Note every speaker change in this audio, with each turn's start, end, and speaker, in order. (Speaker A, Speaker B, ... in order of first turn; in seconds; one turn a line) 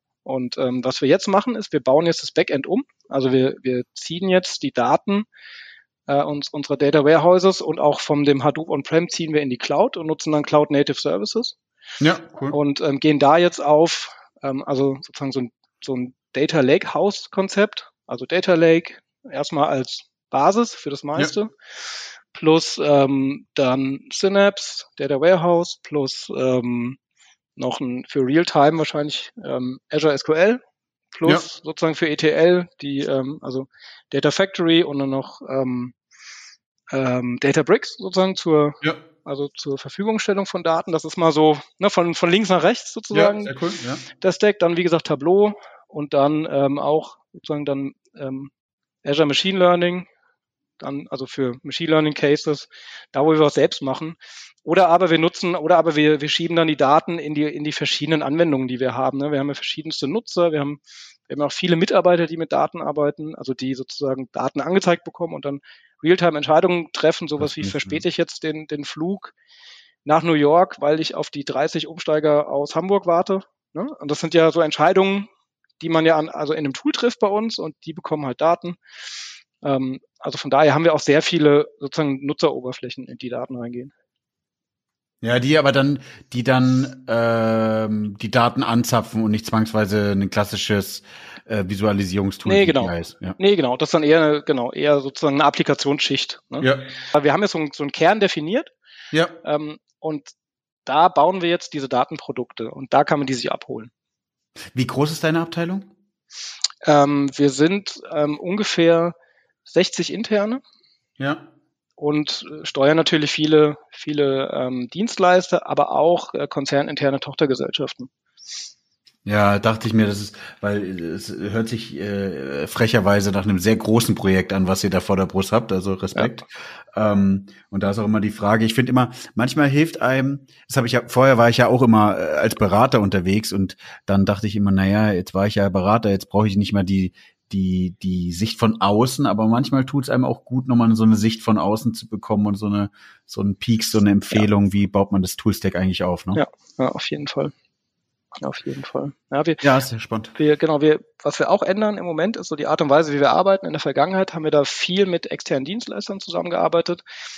Speaker A: 0.2-5.2
Speaker A: 6.1-11.6
Speaker B: 12.0-12.6
Speaker A: 12.5-21.5
Speaker A: 22.3-27.0
Speaker A: 27.6-30.6
Speaker A: 31.1-35.9
Speaker A: 36.9-43.5
Speaker B: 43.1-44.0
Speaker A: 44.2-48.5
Speaker A: 49.0-50.1
Speaker A: 50.8-69.3
Speaker B: 67.4-68.0
Speaker A: 70.0-75.3
Speaker A: 75.8-78.8
Speaker A: 79.6-83.9
Speaker B: 85.2-93.4
Speaker A: 92.4-98.7
Speaker B: 96.6-96.8
Speaker B: 99.1-99.4
Speaker A: 99.4-100.3
Speaker A: 100.8-103.9
Speaker B: 104.7-105.9
Speaker A: 106.8-109.1
Speaker A: 109.7-110.6
Speaker B: 111.2-111.5
Speaker A: 112.0-118.1
Speaker B: 119.2-146.4
Speaker A: 146.3-147.5
Speaker A: 148.4-149.6
Speaker B: 149.6-150.3
Speaker A: 150.4-157.0